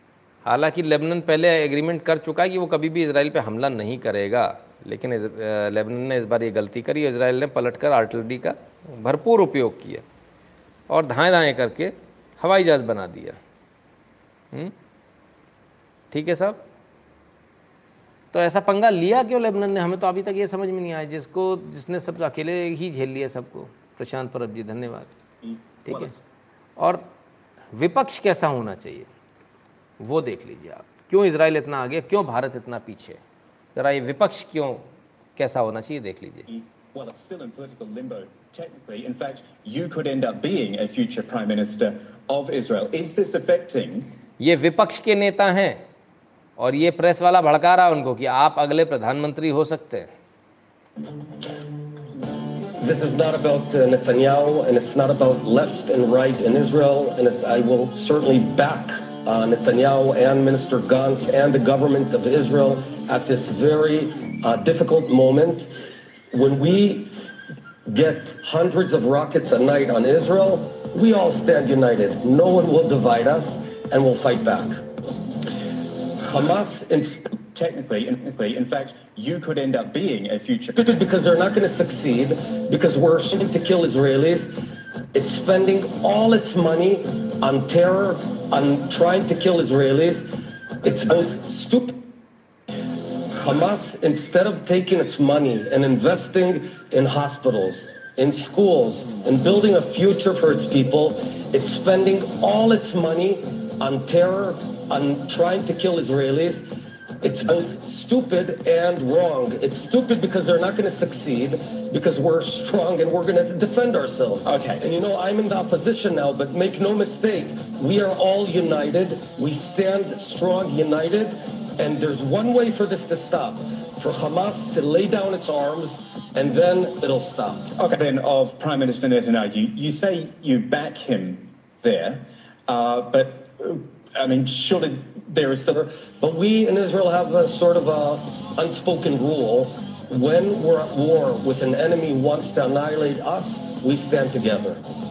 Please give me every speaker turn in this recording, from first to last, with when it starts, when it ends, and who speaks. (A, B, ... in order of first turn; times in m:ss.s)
0:00.4-0:10.0 A
0:10.9-0:13.4 A
0:16.1-0:16.6 A
0:18.3-0:25.1 A
0:25.4-0:26.2 B
0:25.8-0:26.1 A
0:26.8-0:27.0 A
0:27.7-0:29.1 A
0:30.0-0:33.2 A
0:33.8-0:36.5 A
0:36.5-0:44.1 B
0:44.4-0:45.8 A
0:46.6-0:50.1 A
0:52.8-1:05.7 C
1:06.3-1:07.2 C
1:07.9-1:14.9 C
1:16.2-1:17.4 C
1:17.4-1:21.0 B
1:20.8-1:24.5 C
1:25.1-1:30.3 C
1:30.8-1:32.0 C
1:33.3-1:46.7 C
1:47.2-2:07.8 C
1:54.5-1:54.9 B
2:07.8-2:15.7 B
2:15.7-2:24.8 C